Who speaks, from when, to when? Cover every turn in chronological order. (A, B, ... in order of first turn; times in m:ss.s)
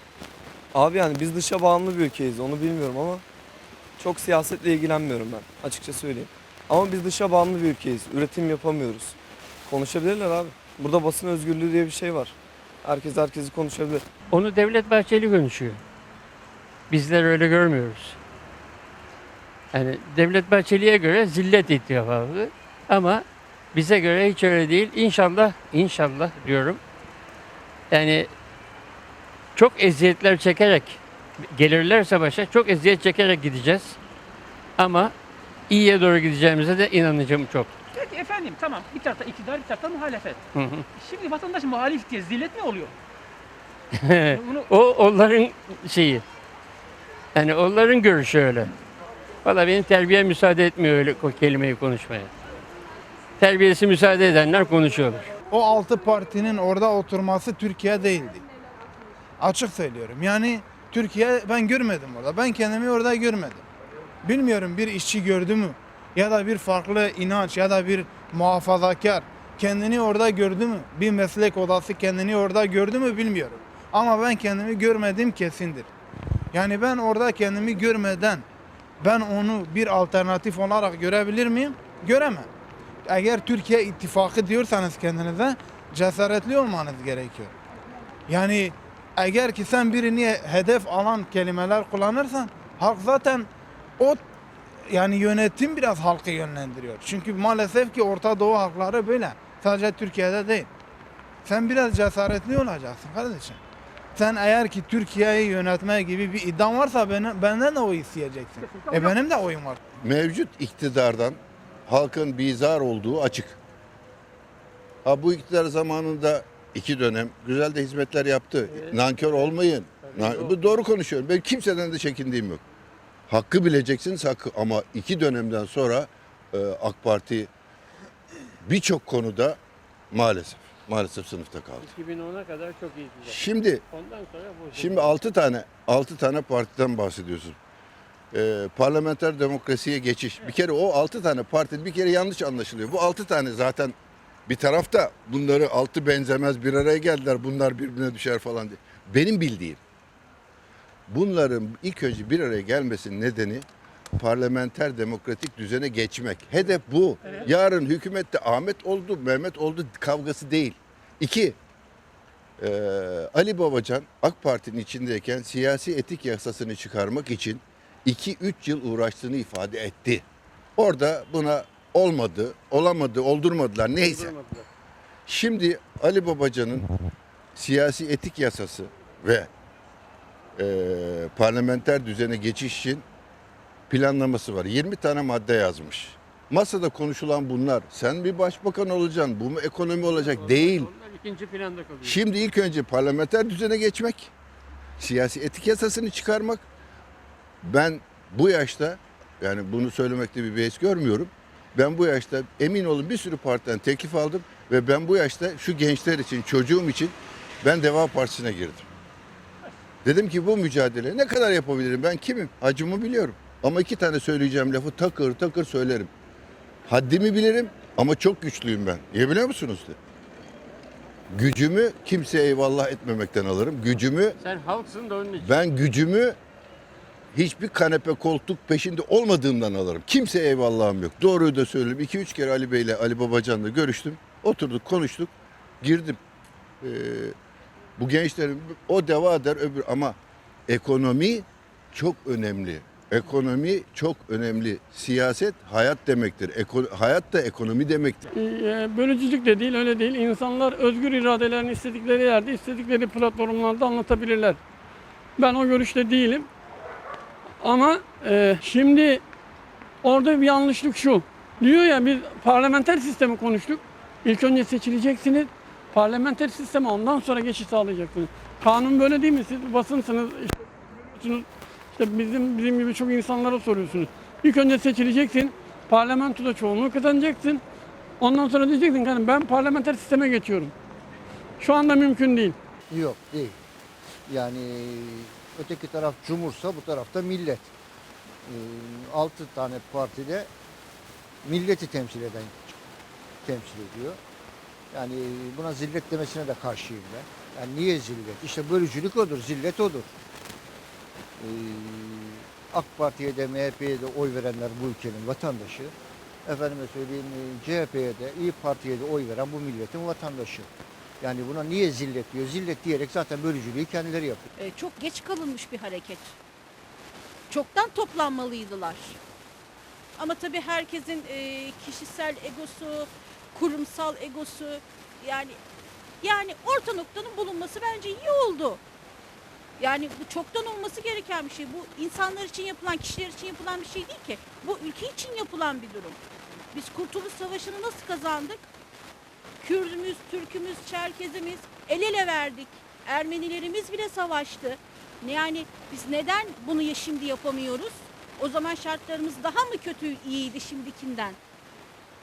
0:00.7-0:03.2 A
0:04.0-0:14.0 A
0:14.3-0:15.8 B
0:16.9-0:18.2 B
0:19.7-0:26.8 B
0:27.9-0:28.3 B
0:29.6-0:34.0 B
0:34.8-0:35.1 B
0:35.7-0:37.7 B
0:37.9-0:40.4 C
0:40.6-0:40.8 B
0:41.0-0:42.9 C
0:44.0-0:46.2 B
0:44.4-0:44.7 C
0:47.4-0:48.7 B
0:49.4-0:52.3 B
0:53.4-0:55.3 B
0:55.5-0:58.4 D
0:59.4-1:03.6 D
1:04.2-1:15.9 D
1:16.5-1:18.4 D
1:19.0-1:22.5 D
1:23.1-1:27.5 D
1:28.3-1:33.5 D
1:34.9-1:40.7 D
1:41.5-1:43.6 D
1:44.2-1:49.8 D
1:50.0-1:53.6 E
1:55.0-2:02.6 E
1:58.7-2:00.8 B
2:03.3-2:07.5 E
2:08.6-2:09.6 E
2:10.1-2:11.9 E
2:11.8-2:15.2 B
2:13.2-2:13.8 E
2:14.7-2:17.6 E
2:18.3-2:24.0 E
2:24.5-2:29.8 E
2:31.1-2:41.6 E
2:42.6-2:50.2 E
2:50.8-2:54.4 E
2:54.0-2:54.7 B
2:55.3-2:56.9 E
2:57.6-2:59.5 E
3:00.6-3:03.0 E
3:03.9-3:10.9 E
3:10.1-3:12.2 B
3:12.0-3:14.3 E
3:15.0-3:16.6 E
3:17.6-3:28.9 E
3:30.0-3:36.1 E
3:36.9-3:40.0 E
3:41.3-3:44.4 E
3:44.4-3:45.6 B
3:45.4-3:46.4 E
3:47.3-3:55.3 E
3:55.8-3:56.2 E
3:56.8-3:57.3 E
3:58.0-4:00.2 E
4:00.7-4:08.3 E
4:08.3-4:14.6 F
4:15.4-4:16.5 F
4:17.6-4:19.2 F
4:20.0-4:30.6 F
4:31.2-4:37.6 F
4:38.2-4:40.7 F
4:41.6-4:42.6 F
4:42.9-4:43.6 G
4:44.3-4:47.7 G
4:48.5-4:50.5 G
4:51.4-4:52.8 G
4:53.4-4:54.2 G
4:54.9-5:00.2 G
5:01.4-5:05.9 G
5:06.5-5:10.7 G
5:11.2-5:14.5 G
5:14.6-5:16.4 H
5:17.5-5:19.2 H
5:20.2-5:25.6 H
5:26.2-5:28.8 H
5:29.8-5:36.2 H
5:36.7-5:38.7 H
5:39.6-5:51.4 H